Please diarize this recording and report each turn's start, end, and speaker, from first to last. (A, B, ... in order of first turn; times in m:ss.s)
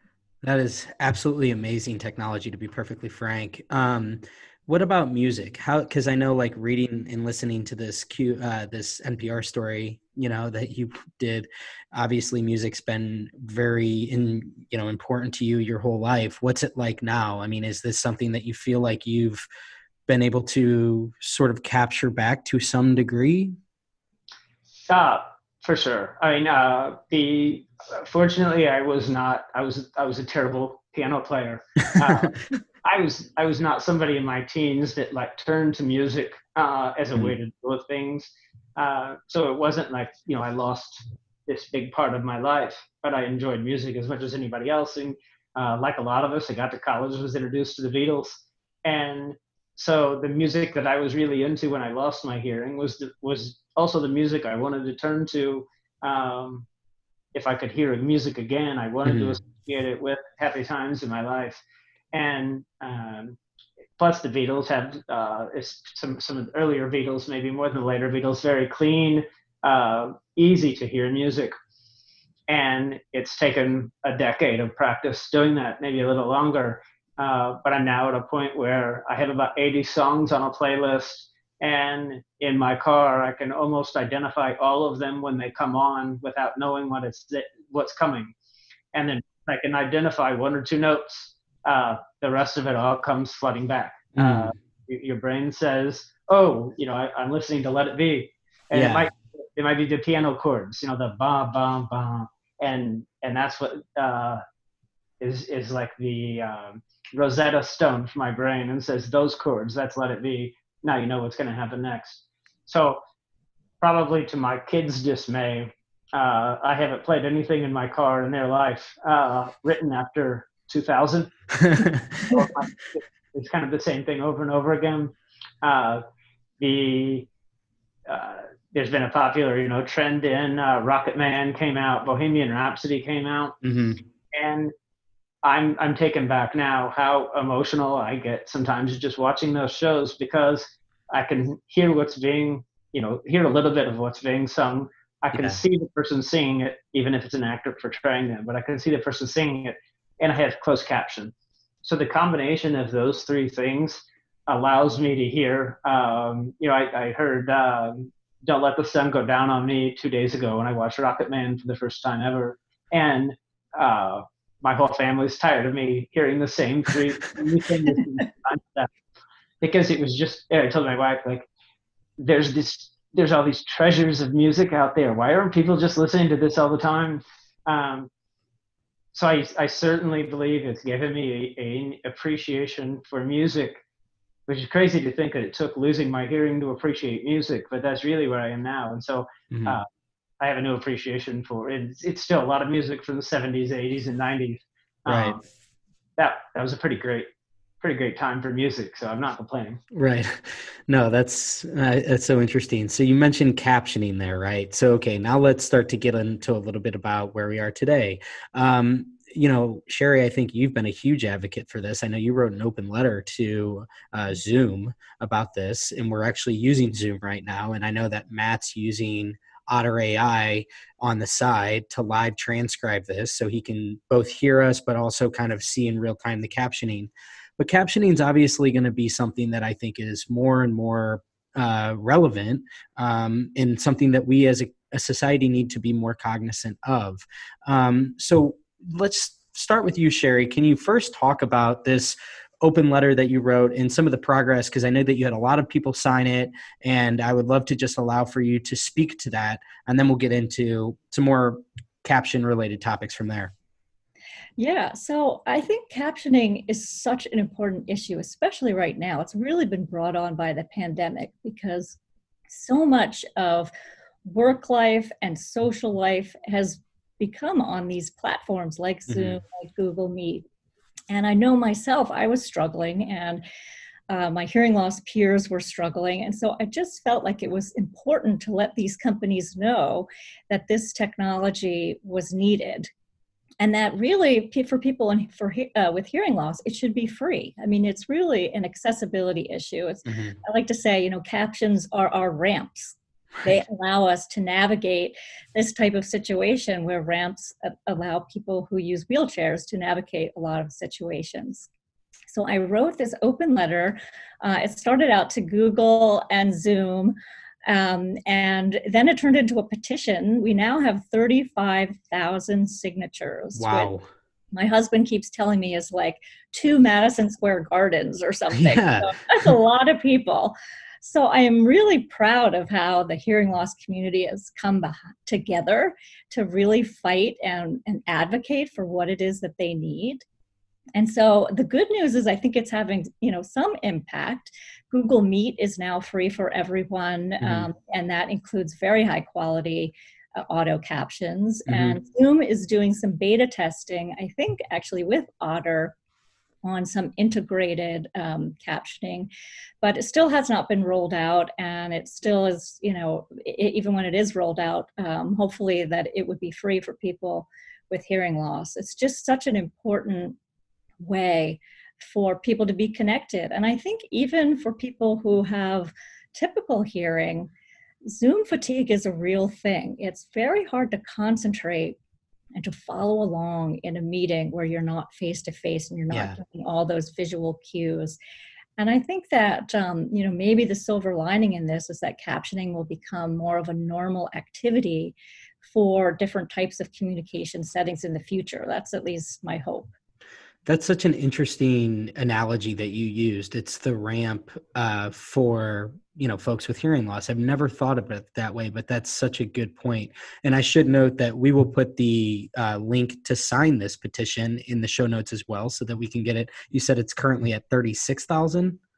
0:00.4-0:19.4 A
0:20.1-0:23.5 A
0:24.9-0:56.6 B
0:57.3-1:01.6 B
0:59.0-0:59.4 A
1:02.1-1:03.4 B
1:04.0-1:11.5 B
1:12.5-1:28.3 B
1:28.9-1:44.4 B
1:34.2-1:34.5 A
1:38.7-1:39.1 A
1:45.2-1:53.0 B
1:53.8-2:01.3 B
2:01.6-2:02.5 A
2:02.2-2:06.0 B
2:06.6-2:07.3 B
2:08.1-2:13.6 B
2:13.6-2:14.0 A
2:14.3-2:14.7 B
2:15.4-2:31.3 B
2:25.3-2:25.6 A
2:31.8-2:48.9 B
2:49.6-2:51.4 B
2:52.2-2:58.1 B
2:59.1-3:03.8 B
3:04.5-3:09.8 B
3:09.5-3:09.8 A
3:10.4-3:15.4 B
3:15.1-3:15.4 A
3:16.2-3:17.3 B
3:17.8-3:19.8 B
3:19.9-4:13.5 A
4:14.6-4:22.0 C
4:22.5-4:23.7 C
4:24.2-4:30.4 C
4:29.1-4:29.4 A
4:31.1-4:33.4 C
4:34.1-4:42.9 C
4:43.6-5:01.7 C
4:50.1-4:50.4 A
5:02.3-5:07.1 C
5:07.7-5:13.9 C
5:13.6-5:14.0 A
5:14.5-5:30.2 C
5:18.5-5:19.1 A
5:30.9-5:39.9 C
5:37.4-5:37.7 A
5:40.5-5:46.0 C
5:41.7-5:42.0 A
5:46.6-5:49.3 C
5:49.8-6:00.4 C
6:01.0-6:07.5 C
6:08.0-6:12.0 C
6:12.6-6:18.2 C
6:16.1-6:16.4 A
6:18.8-6:29.9 C
6:30.6-6:48.8 A